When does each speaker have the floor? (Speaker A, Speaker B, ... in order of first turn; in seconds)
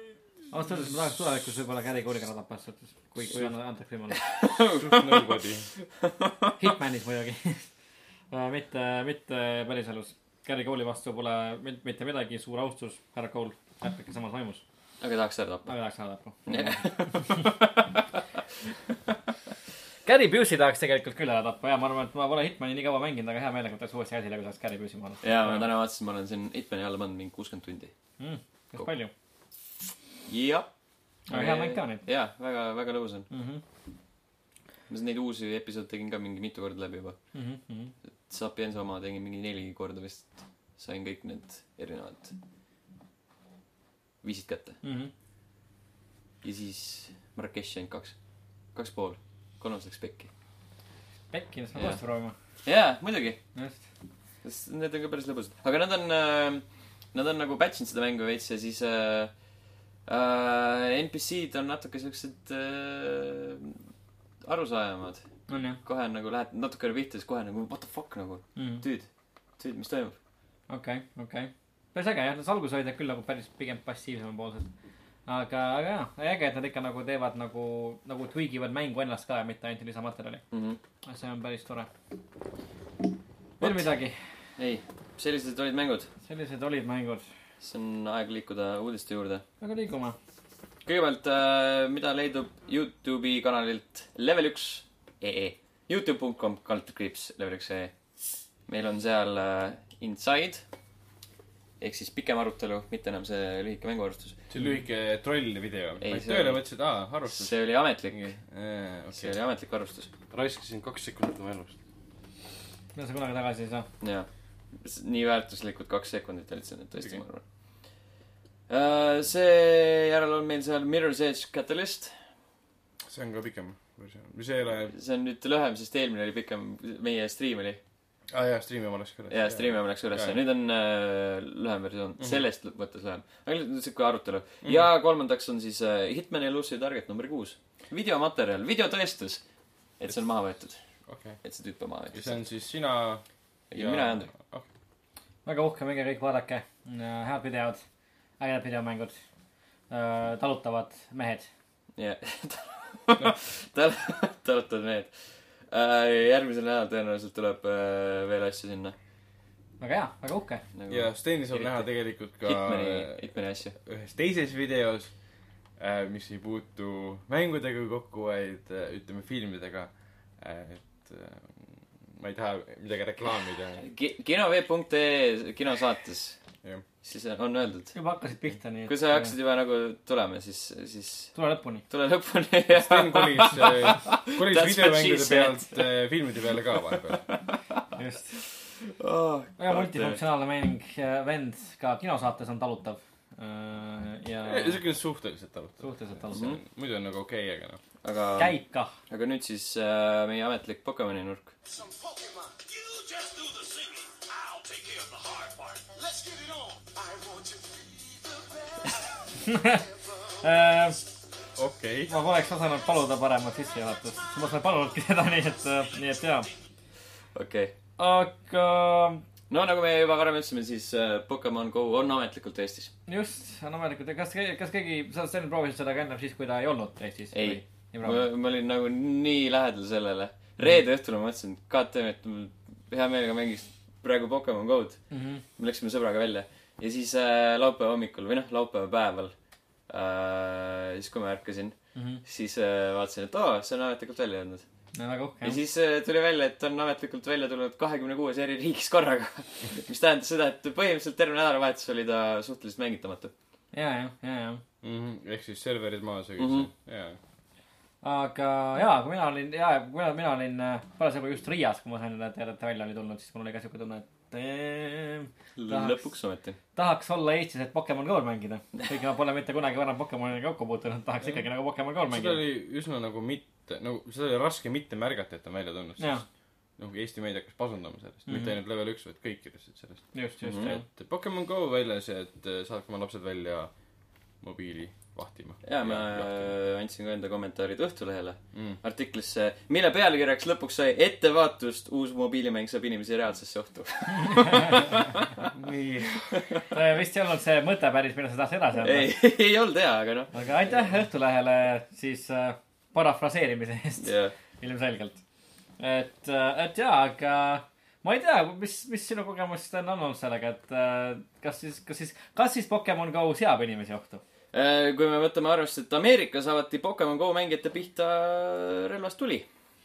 Speaker A: 0.5-4.2, 6.6-7.6, 8.3-14.6, 15.7-17.4, 20.0-25.7, 28.2-29.1, 31.3-32.0, 33.3-33.6, 37.3-37.9, 44.8-45.1, 51.3-52.3, 65.5-65.8, 68.5-68.8, 70.7-74.7, 75.3-80.4, 81.0-81.9, 83.6-84.2, 86.2-87.2, 89.6-90.2, 112.9-113.9, 145.4-147.8, 148.4-149.1, 149.9-151.5, 159.8-160.6, 177.9-179.3, 181.3-181.8, 187.9-188.4, 189.6-194.8, 195.8-196.4, 198.4-198.9, 209.4-209.8, 210.4-211.0, 212.1-216.5, 218.0-219.2, 223.1-228.2, 235.1-235.4, 241.9-242.2, 244.9-245.6, 253.7-254.6, 258.0-266.1, 266.7-272.4, 276.0-276.2, 278.3-278.6, 280.1-280.8, 294.3-295.0, 296.7-299.1, 300.3-305.2, 305.8-314.2
Speaker B: 4.1-5.4, 6.0-6.6, 15.0-15.7, 16.5-18.0, 25.2-27.9, 30.2-30.7, 31.3-33.3, 34.9-37.1, 38.3-42.3, 44.2-44.8, 46.4-48.1, 48.7-50.3, 52.6-53.4, 54.4-59.3, 60.0-63.8, 64.4-65.3, 65.8-69.1, 69.6-70.2, 80.5-80.8, 83.6-83.9, 84.6-86.1, 87.6-89.4, 90.8-97.9, 98.7-100.6, 101.8-104.4, 106.0-106.6, 107.2-108.3, 109.1-110.1, 114.0-117.4, 118.7-122.2, 124.9-127.8, 129.3-139.4, 140.0-140.8, 141.4-142.4, 143.7-144.3, 151.9-158.9, 160.7-161.9, 162.4-163.8, 173.8-176.4, 177.0-177.9, 178.9-181.3, 181.9-185.9, 187.0-187.8, 188.8-190.2, 196.3-196.6, 198.0-198.6, 199.1-201.5, 217.3-217.7, 219.5-222.9, 227.3-235.0, 235.6-239.3, 239.9-244.6, 245.4-253.3, 256.4-256.7, 265.6-266.6, 280.4-280.7, 285.6-295.5, 296.3-296.7, 298.8-300.3, 304.0-304.3, 314.5-319.5
Speaker C: 4.7-5.7, 104.5-107.5, 108.1-109.3, 110.3-111.8, 123.0-124.9, 128.3-130.4, 134.6-134.9, 141.1-141.4, 142.1-144.7, 160.9-163.2, 163.8-165.1, 165.8-173.8, 182.7-187.2, 194.4-197.8, 211.6-212.1, 254.8-257.2, 272.1-276.2, 276.8-283.7, 284.4-286.5, 288.5-288.8, 295.5-296.4
Speaker D: 201.7-210.8